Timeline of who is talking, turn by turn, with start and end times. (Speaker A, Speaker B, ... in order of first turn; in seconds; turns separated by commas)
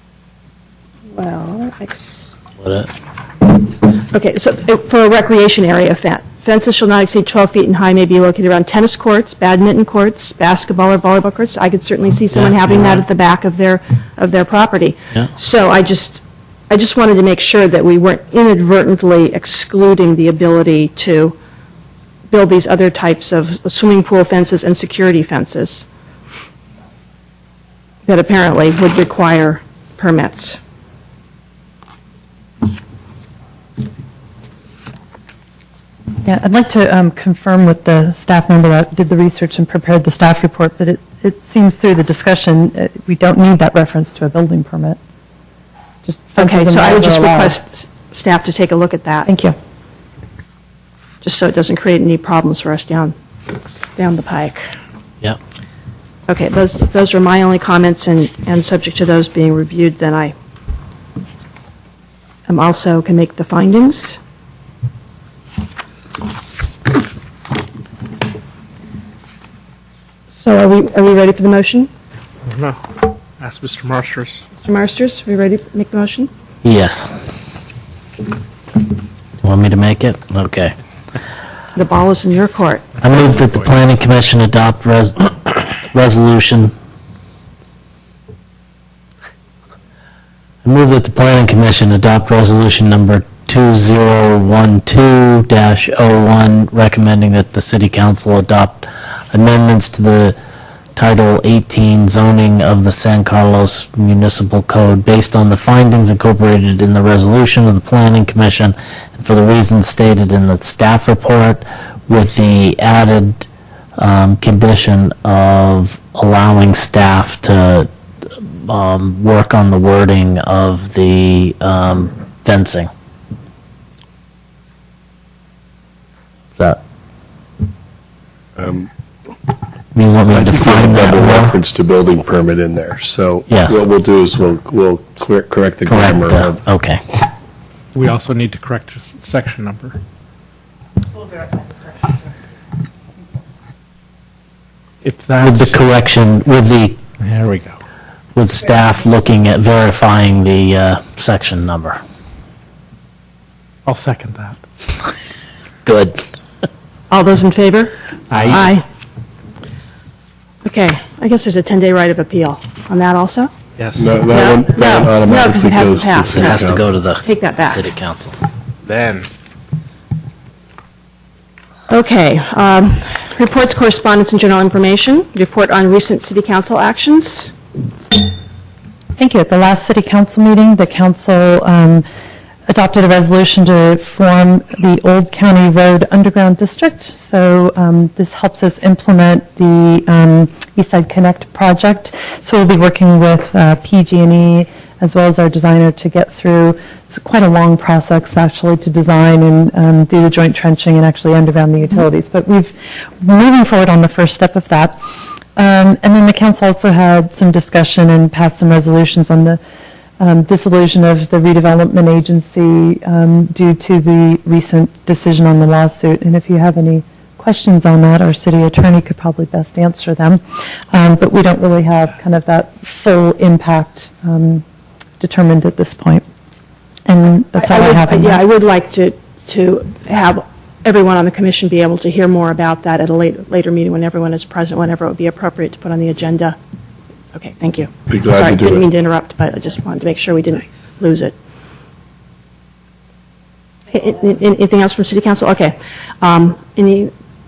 Speaker A: 1.1-2.4, Speaker B: 2.6-2.9, Speaker A: 4.0-21.4, Speaker A: 22.3-25.9, Speaker A: 28.1-30.6, Speaker C: 36.2-45.0, Speaker C: 46.0-47.6, Speaker A: 46.4-49.3, Speaker C: 49.3-49.5, Speaker A: 51.2-53.1, Speaker A: 54.0-54.6, Speaker A: 56.3-60.3, Speaker A: 62.5-64.2, Speaker A: 70.3-71.9, Speaker D: 72.5-72.8, Speaker D: 73.4-74.4, Speaker A: 74.6-76.3, Speaker B: 76.6-77.1, Speaker B: 79.4-80.8, Speaker A: 81.8-82.9, Speaker B: 83.0-86.7, Speaker B: 90.7-100.4, Speaker B: 101.0-122.9, Speaker E: 128.6-128.9, Speaker B: 129.9-131.6, Speaker E: 130.3-136.6, Speaker B: 133.5-133.8, Speaker B: 135.9-137.0, Speaker D: 137.9-140.0, Speaker D: 145.0-145.8, Speaker B: 145.4-147.0, Speaker D: 147.2-147.8, Speaker B: 148.3-152.0, Speaker D: 153.9-154.6, Speaker B: 155.8-156.2, Speaker A: 157.1-158.8, Speaker D: 158.3-158.6, Speaker A: 160.6-163.5, Speaker D: 163.8-164.1, Speaker E: 164.0-166.9, Speaker A: 164.3-167.8, Speaker B: 166.2-168.4, Speaker D: 168.9-169.3, Speaker A: 171.9-177.5, Speaker C: 179.2-182.1, Speaker C: 182.7-205.0, Speaker C: 205.6-209.6, Speaker C: 210.2-220.4, Speaker C: 220.9-224.6, Speaker C: 225.2-226.2, Speaker C: 227.1-228.4, Speaker A: 227.6-236.6, Speaker A: 237.3-241.3, Speaker E: 238.1-238.9, Speaker A: 243.9-247.1